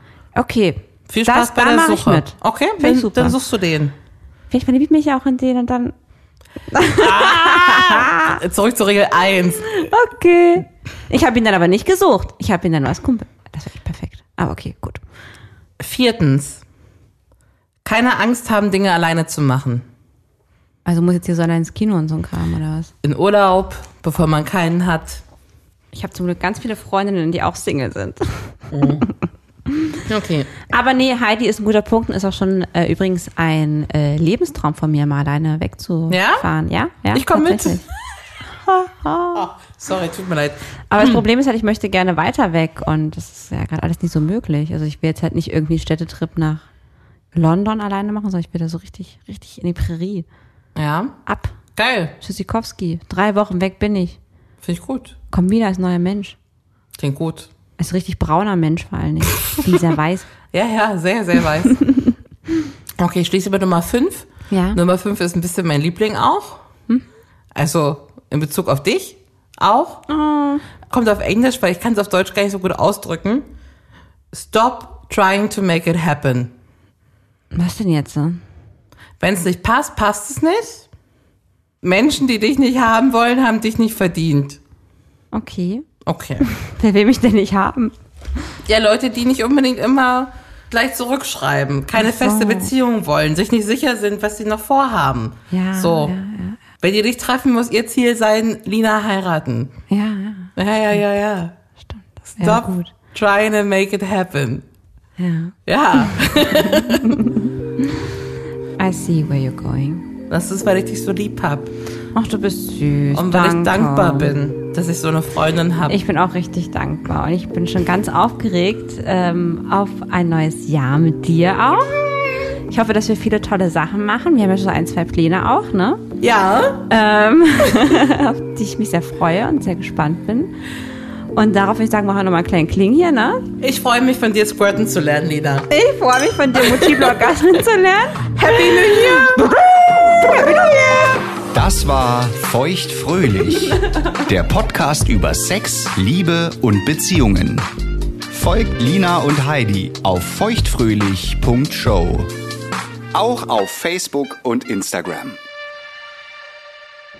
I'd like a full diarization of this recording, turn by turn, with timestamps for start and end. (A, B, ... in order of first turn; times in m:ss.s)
0:00.4-0:03.4 A
0:01.1-0:03.9 B
0:04.5-0:05.9 A
0:06.7-0:08.4 A
0:06.9-0:09.8 B
0:09.7-0:15.0 A
0:15.8-0:16.6 B
0:17.8-0:19.9 B
0:20.8-0:22.9 A
0:23.0-0:25.2 B
0:25.9-0:29.1 A
0:28.7-0:29.1 B
0:29.7-0:30.0 A
0:30.1-0:30.5 B
0:30.7-0:37.8 A
0:36.1-0:36.4 B
0:37.1-0:37.8 B
0:38.6-0:39.5 A
0:39.3-0:41.2 B
0:40.9-0:46.7 A
0:47.3-0:50.3 A
0:50.8-0:51.2 B
0:51.3-0:51.6 A
0:51.7-0:52.1 B
0:52.2-0:54.2 A
0:54.6-0:55.1 B
0:55.3-0:56.4 A
0:57.0-0:57.5 B
0:57.8-1:00.3 A
1:00.5-1:01.8 B
1:03.0-1:06.6 B
1:04.5-1:04.8 A
1:07.5-1:10.0 B
1:10.1-1:10.6 A
1:10.9-1:13.5 B
1:14.3-1:16.5 B
1:17.5-1:18.4 A
1:19.2-1:20.8 B
1:21.8-1:24.6 B
1:25.3-1:25.9 A
1:26.0-1:26.4 B
1:26.4-1:27.9 A
1:28.6-1:36.2 B
1:32.0-1:32.7 A
1:35.5-1:36.6 A
1:36.8-1:39.7 B
1:39.9-1:40.5 A
1:40.6-1:41.6 B
1:42.2-1:42.9 A
1:42.4-1:44.6 B
1:45.2-1:47.5 A
1:45.7-1:47.2 B
1:48.8-1:50.0 A
1:50.3-1:51.7 B
1:52.1-1:54.3 A
1:53.1-1:56.0 B
1:55.9-2:02.0 A
2:02.7-2:06.0 A
2:06.2-2:06.8 B
2:06.9-2:10.6 A
2:11.3-2:13.5 A
2:13.6-2:15.7 B
2:15.7-2:19.4 A
2:16.6-2:17.1 B
2:18.4-2:21.0 B
2:21.5-2:27.7 C
2:28.3-2:32.3 C
2:33.1-2:35.4 C